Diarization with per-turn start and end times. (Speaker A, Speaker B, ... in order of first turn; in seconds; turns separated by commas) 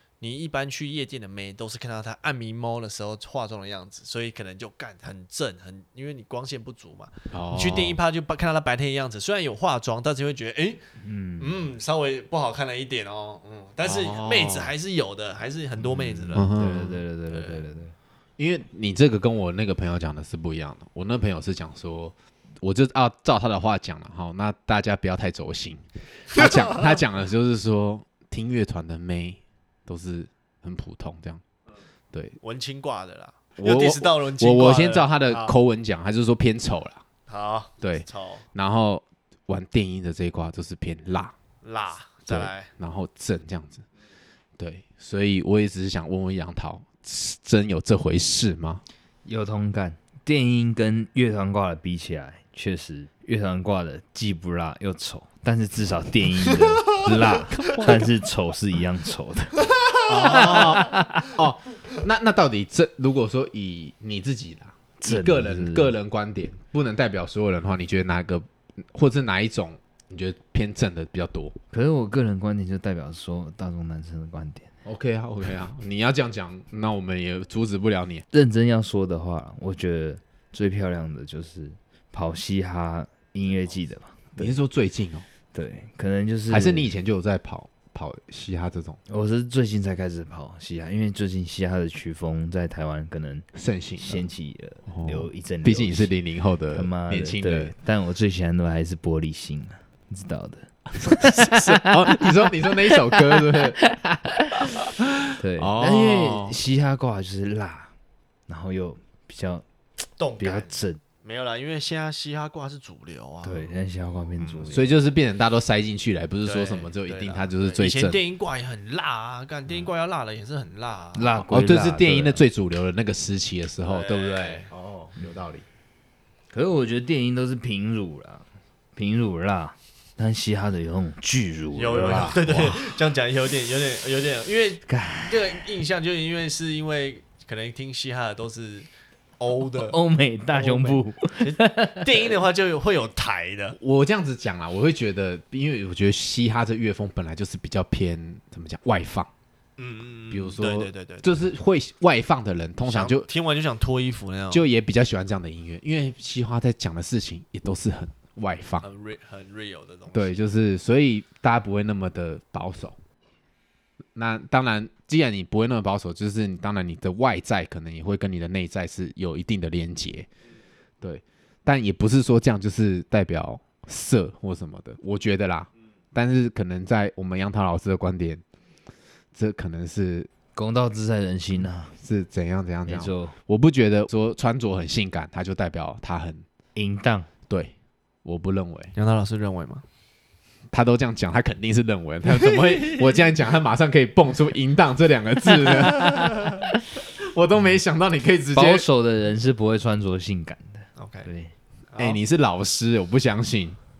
Speaker A: 0.2-10.8, Speaker B: 7.3-8.0, Speaker C: 11.0-11.6, Speaker A: 11.4-16.5, Speaker B: 13.8-14.7, Speaker C: 15.8-17.9, Speaker B: 16.3-17.0, Speaker A: 17.3-17.6, Speaker B: 18.4-31.4, Speaker A: 32.4-35.5, Speaker B: 33.6-37.0, Speaker A: 37.3-38.4, Speaker B: 37.8-41.3, Speaker A: 41.6-42.7, Speaker B: 42.3-43.8, Speaker B: 44.6-48.8, Speaker C: 49.2-61.3, Speaker B: 57.7-58.0, Speaker B: 60.1-71.5, Speaker A: 60.2-60.7, Speaker C: 65.0-65.9, Speaker C: 71.7-74.7, Speaker B: 74.8-78.2, Speaker C: 78.3-84.5, Speaker B: 84.3-85.2, Speaker C: 85.5-86.9, Speaker B: 86.5-89.0, Speaker C: 89.1-93.5, Speaker B: 93.5-94.2, Speaker C: 94.0-96.1, Speaker B: 94.9-97.7, Speaker C: 96.7-102.3, Speaker B: 101.1-103.8, Speaker C: 102.9-104.7, Speaker B: 105.2-106.5, Speaker C: 105.4-107.9, Speaker C: 108.5-109.6, Speaker A: 110.2-110.7, Speaker C: 110.4-111.0, Speaker A: 111.2-113.7, Speaker C: 113.4-114.9, Speaker A: 114.4-114.7, Speaker B: 114.7-118.2, Speaker A: 116.4-121.3, Speaker C: 121.1-122.4, Speaker B: 121.5-125.6, Speaker A: 123.8-124.7, Speaker C: 126.5-128.4, Speaker C: 128.9-132.3, Speaker A: 131.8-138.9, Speaker B: 132.0-132.8, Speaker C: 134.9-135.6, Speaker A: 139.4-140.0, Speaker C: 139.8-142.3, Speaker A: 140.5-143.8, Speaker B: 143.7-149.3, Speaker A: 149.8-151.3, Speaker B: 150.3-153.2, Speaker A: 152.8-154.6, Speaker B: 154.5-158.8, Speaker A: 158.8-160.3, Speaker B: 160.1-162.9, Speaker B: 164.1-170.3, Speaker B: 171.0-178.4, Speaker B: 179.3-180.3, Speaker C: 180.5-181.9, Speaker B: 182.0-186.4, Speaker C: 182.8-183.3, Speaker C: 186.7-187.3, Speaker B: 188.2-188.9, Speaker A: 188.9-189.8, Speaker B: 190.7-196.5, Speaker B: 197.2-198.8, Speaker C: 198.5-201.5, Speaker A: 201.0-201.3, Speaker A: 201.9-202.2, Speaker B: 201.9-203.8